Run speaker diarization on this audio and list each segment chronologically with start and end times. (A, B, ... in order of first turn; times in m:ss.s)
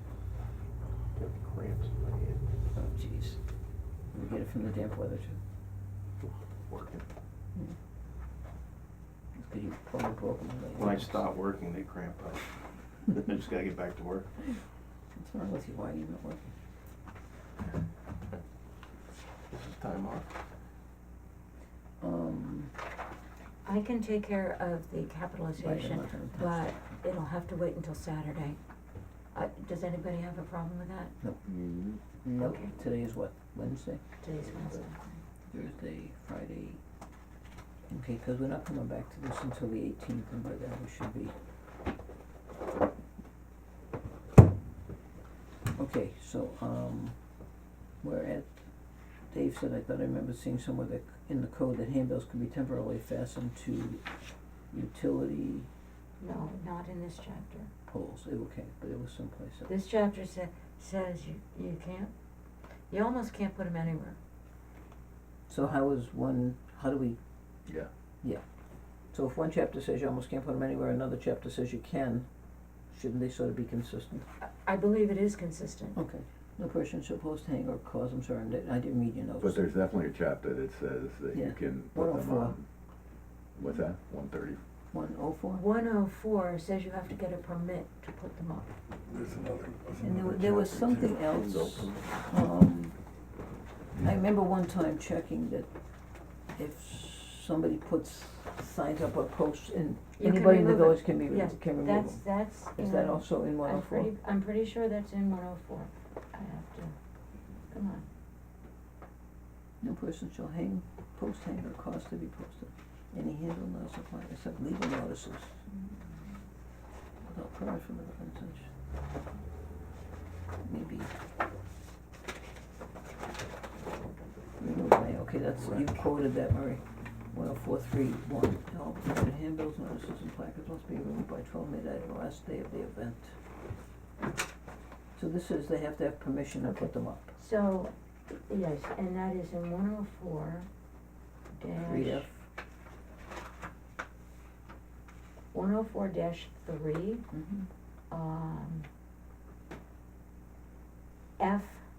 0:01.2-0:02.4 A
0:02.8-0:03.4 B
0:04.1-0:05.4 B
0:06.7-0:07.0 A
0:09.4-0:11.3 B
0:10.7-0:12.5 A
0:13.1-0:14.3 A
0:15.1-0:16.5 B
0:19.5-0:20.3 A
0:22.0-0:22.7 B
0:23.6-0:28.6 C
0:25.6-0:26.8 B
0:29.3-0:31.1 C
0:31.4-0:32.0 D
0:32.2-0:34.0 B
0:32.4-0:32.8 C
0:34.2-0:35.2 C
0:35.5-0:36.8 B
0:37.9-0:41.3 B
0:45.8-0:47.1 B
0:48.0-0:48.6 B
0:49.3-0:54.0 B
0:54.7-0:55.7 B
0:56.2-0:57.7 C
0:57.9-0:59.7 B
0:59.7-1:02.1 C
1:02.9-1:04.2 C
1:05.5-1:07.2 B
1:09.1-1:12.3 B
1:12.9-1:14.2 B
1:14.4-1:16.0 C
1:15.9-1:19.6 B
1:19.4-1:22.6 D
1:21.3-1:22.6 B
1:23.6-1:24.6 D
1:24.9-1:25.6 B
1:25.5-1:28.7 C
1:29.1-1:31.9 D
1:30.0-1:33.0 B
1:34.0-1:35.7 B
1:36.6-1:44.1 B
1:40.2-1:47.0 C
1:47.7-1:48.0 C
1:49.8-1:55.6 B
1:57.2-1:58.7 B
2:00.6-2:01.1 B
2:04.6-2:13.3 B
2:15.1-2:17.3 B
2:16.6-2:20.7 C
2:21.6-2:22.2 C
2:21.8-2:22.4 B
2:25.5-2:27.2 C
2:27.3-2:27.7 B
2:28.1-2:28.9 C
2:31.4-2:31.8 C